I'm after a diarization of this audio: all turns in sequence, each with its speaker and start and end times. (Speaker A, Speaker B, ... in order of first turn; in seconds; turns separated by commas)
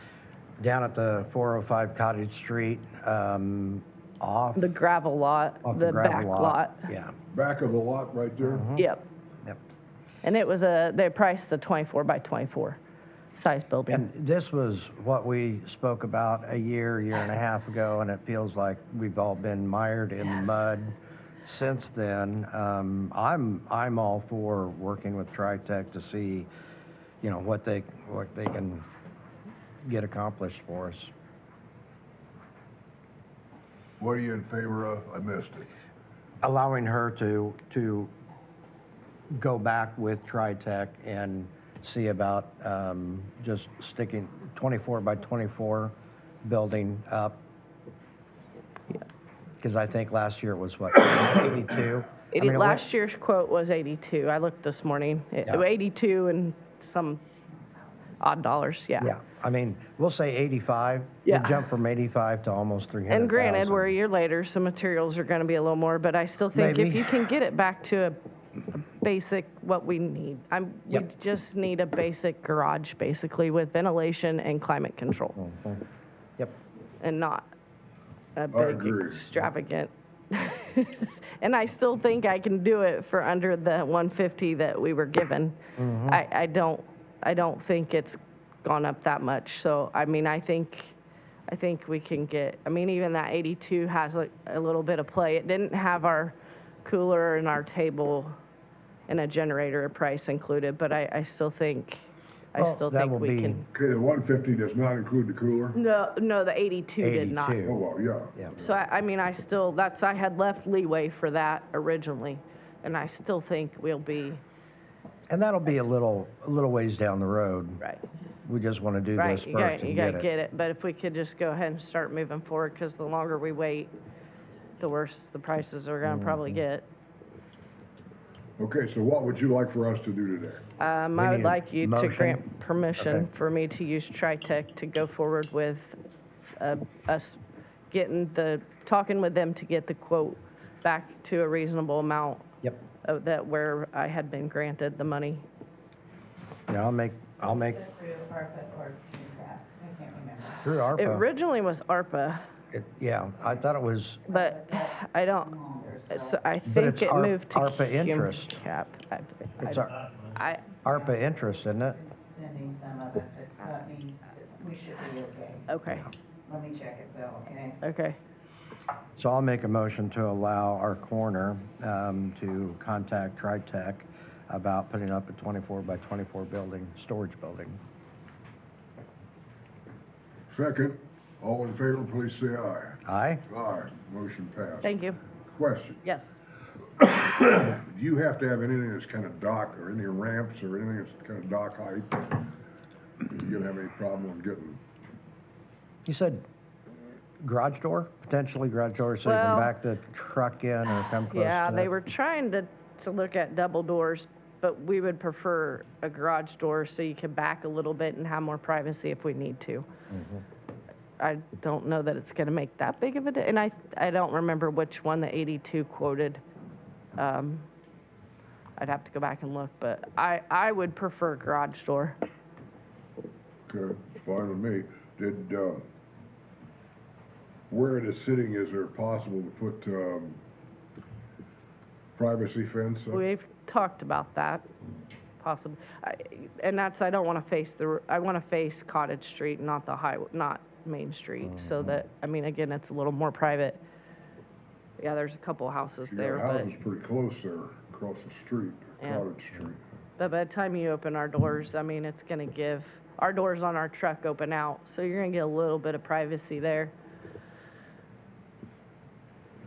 Speaker A: 0.6-4.7, Speaker B: 4.5-6.9, Speaker A: 5.6-7.1, Speaker C: 7.3-8.7, Speaker A: 8.4-8.9, Speaker B: 8.8-9.0, Speaker B: 10.2-12.8, Speaker B: 13.3-14.1, Speaker A: 13.9-26.5, Speaker A: 27.2-28.9, Speaker A: 29.8-31.1, Speaker C: 34.0-35.7, Speaker A: 36.4-38.1, Speaker A: 39.3-45.9, Speaker A: 46.4-47.4, Speaker A: 49.6-52.8, Speaker B: 52.3-57.2, Speaker B: 58.2-59.1, Speaker A: 59.0-63.9, Speaker B: 61.2-61.6, Speaker B: 63.1-68.2, Speaker A: 66.5-67.3, Speaker B: 68.7-75.3, Speaker A: 75.3-75.8, Speaker B: 77.0-77.5, Speaker B: 78.3-85.5, Speaker C: 78.5-79.3, Speaker A: 85.8-86.2, Speaker B: 86.1-90.9, Speaker B: 91.5-98.3, Speaker B: 99.1-102.0, Speaker B: 102.5-103.7, Speaker A: 102.5-103.6, Speaker C: 103.7-105.8, Speaker B: 105.7-107.6, Speaker A: 107.0-107.8, Speaker C: 107.6-108.8, Speaker B: 108.6-114.4, Speaker A: 115.3-117.8, Speaker A: 118.4-120.3, Speaker B: 119.2-123.9, Speaker B: 124.8-126.9, Speaker A: 126.0-126.6, Speaker C: 128.6-130.6, Speaker B: 130.8-135.9, Speaker A: 131.1-133.3, Speaker B: 136.6-137.4, Speaker B: 137.9-142.5, Speaker B: 143.0-145.4, Speaker A: 146.7-147.8, Speaker D: 147.8-150.6, Speaker A: 150.6-151.2, Speaker B: 150.9-152.4, Speaker A: 152.7-154.2, Speaker B: 154.2-155.5, Speaker D: 154.3-156.3, Speaker B: 156.1-160.8, Speaker A: 156.6-158.6, Speaker A: 159.6-159.9, Speaker A: 160.8-162.0, Speaker D: 162.0-165.7, Speaker B: 165.7-166.1, Speaker D: 166.5-167.8, Speaker B: 167.8-168.2, Speaker A: 169.2-177.8, Speaker C: 180.5-186.0, Speaker A: 183.1-183.4, Speaker B: 184.8-185.2, Speaker B: 186.0-186.4, Speaker C: 187.0-192.4, Speaker C: 193.2-194.8, Speaker A: 196.0-196.4, Speaker A: 197.4-201.9, Speaker B: 199.2-199.7, Speaker B: 201.3-209.9, Speaker A: 210.1-210.4, Speaker B: 211.2-216.4, Speaker B: 217.2-217.7, Speaker B: 218.8-222.2, Speaker C: 223.7-225.8, Speaker C: 227.7-230.4, Speaker C: 232.2-233.2, Speaker B: 233.1-234.7, Speaker B: 235.4-243.8, Speaker A: 241.4-242.0, Speaker B: 245.0-246.7, Speaker C: 246.1-249.8, Speaker B: 249.0-249.3, Speaker B: 250.2-256.9